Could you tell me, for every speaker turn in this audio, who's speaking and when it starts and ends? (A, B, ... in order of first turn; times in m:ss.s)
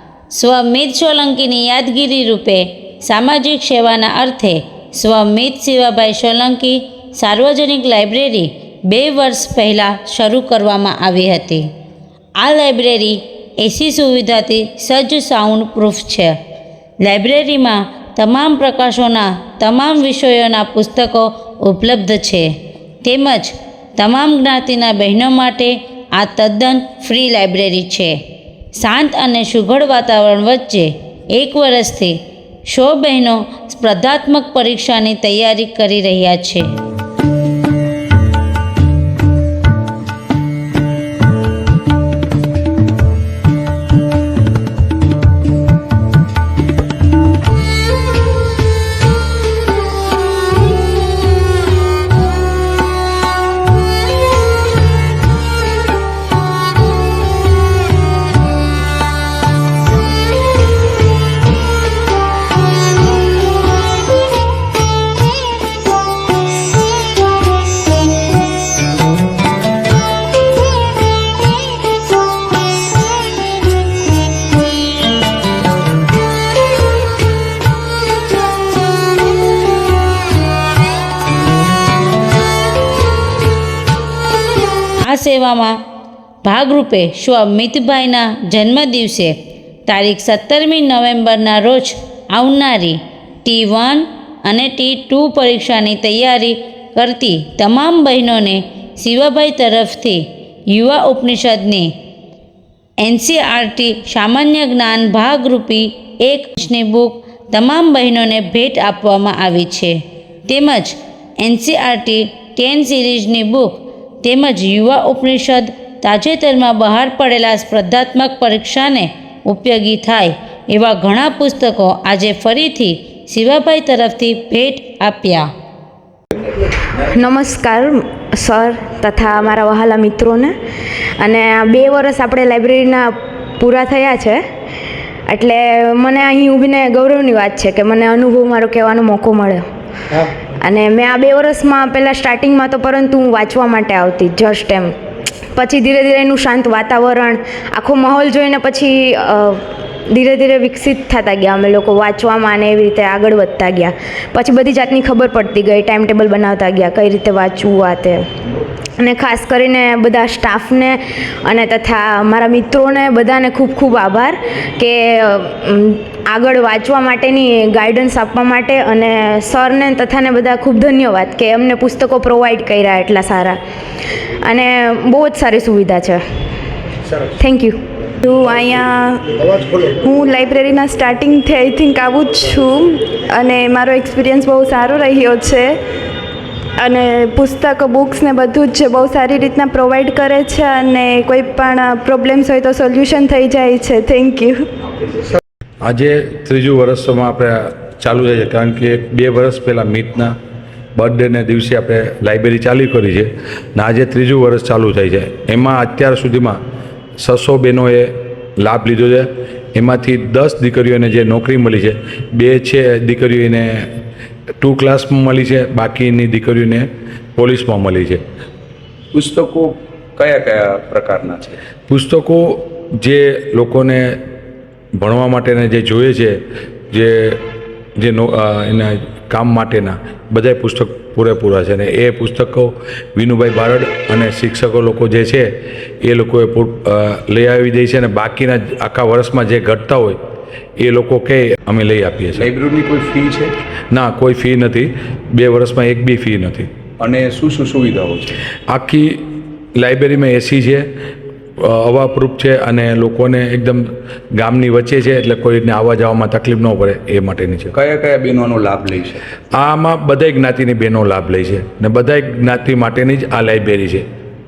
0:00.3-0:11.7 A
0:12.4-0:16.3 A
0:17.0-0:22.5 A
0:23.0-0:28.2 A
0:28.8-0:32.2 A
0:32.7-0:36.7 A
1:25.0-1:25.8 A
1:26.4-1:29.4 A
1:29.9-1:41.9 A
1:43.0-2:05.5 A
2:07.0-2:10.5 B
2:11.2-2:14.4 B
2:15.3-2:19.6 B
2:20.6-2:24.9 B
2:25.6-2:38.2 B
2:39.0-2:53.6 B
2:54.4-2:56.2 B
2:57.4-2:57.8 B
2:58.2-3:05.7 C
3:06.8-3:14.6 C
3:15.8-3:20.4 D
3:21.0-3:26.6 D
3:27.2-3:33.9 D
3:34.6-3:38.2 D
3:39.1-3:41.6 E
3:41.9-3:44.2 D
3:45.0-3:46.4 D
3:46.9-3:47.4 D
3:48.0-3:55.5 D
3:56.0-4:00.2 D
4:00.8-4:02.5 D
4:02.4-4:03.6 E
4:03.9-4:06.7 D
4:07.0-4:08.4 E
4:08.7-4:09.2 D
4:09.8-4:10.9 D
4:11.6-4:17.8 D
4:17.7-4:19.2 E
4:19.5-4:24.0 D